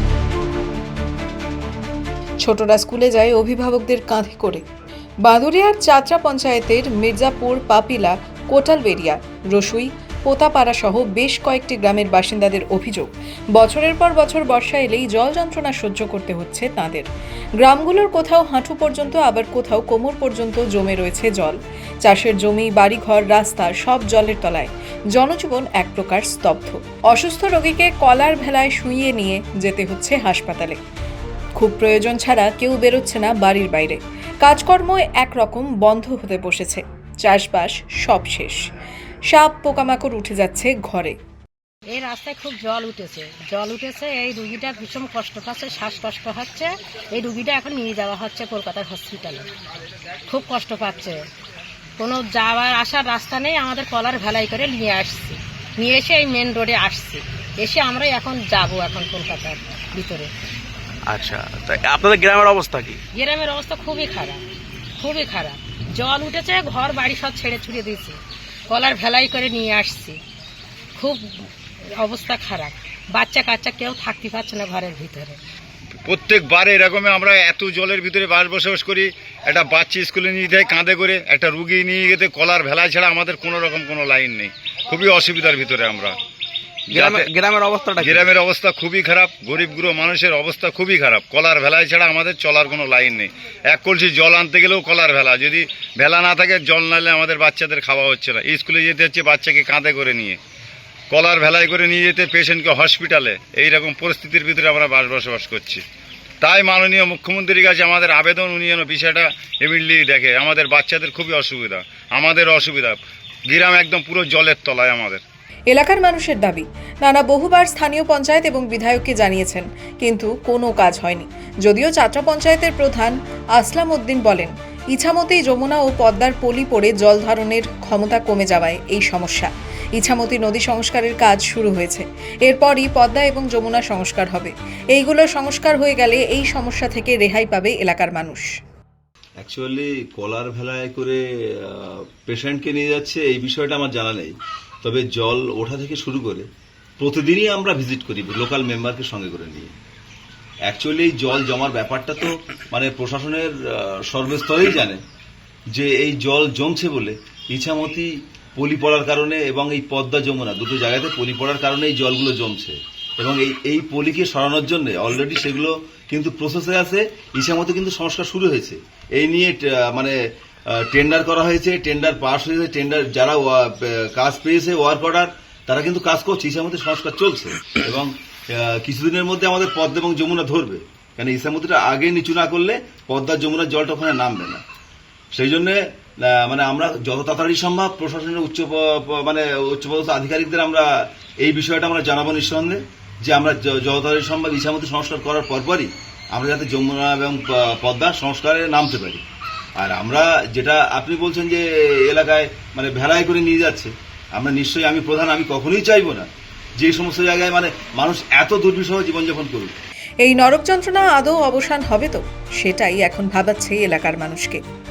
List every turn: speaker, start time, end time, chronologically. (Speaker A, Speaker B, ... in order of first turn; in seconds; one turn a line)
Speaker A: 2.4-4.6
Speaker A: 5.2-17.1
Speaker A: 17.6-30.8
Speaker A: 31.6-38.7
Speaker A: 39.3-41.1
Speaker B: 41.9-49.5
Speaker B: 50.3-51.2
Speaker B: 52.0-60.3
Speaker C: 61.1-63.0
Speaker B: 63.1-64.4
Speaker B: 65.0-68.2
Speaker B: 68.7-70.2
Speaker B: 71.0-75.4
Speaker D: 76.1-86.2
Speaker C: 86.9-88.3
Speaker D: 86.9-87.3
Speaker D: 88.0-100.4
Speaker D: 101.1-105.8
Speaker D: 106.4-113.0
Speaker D: 113.5-115.2
Speaker A: 115.7-138.5
Speaker E: 139.4-149.7
Speaker E: 150.7-155.0
Speaker E: 155.7-170.2
Speaker E: 170.7-184.6
Speaker E: 185.3-199.2
Speaker E: 199.8-209.7
Speaker A: 210.2-214.6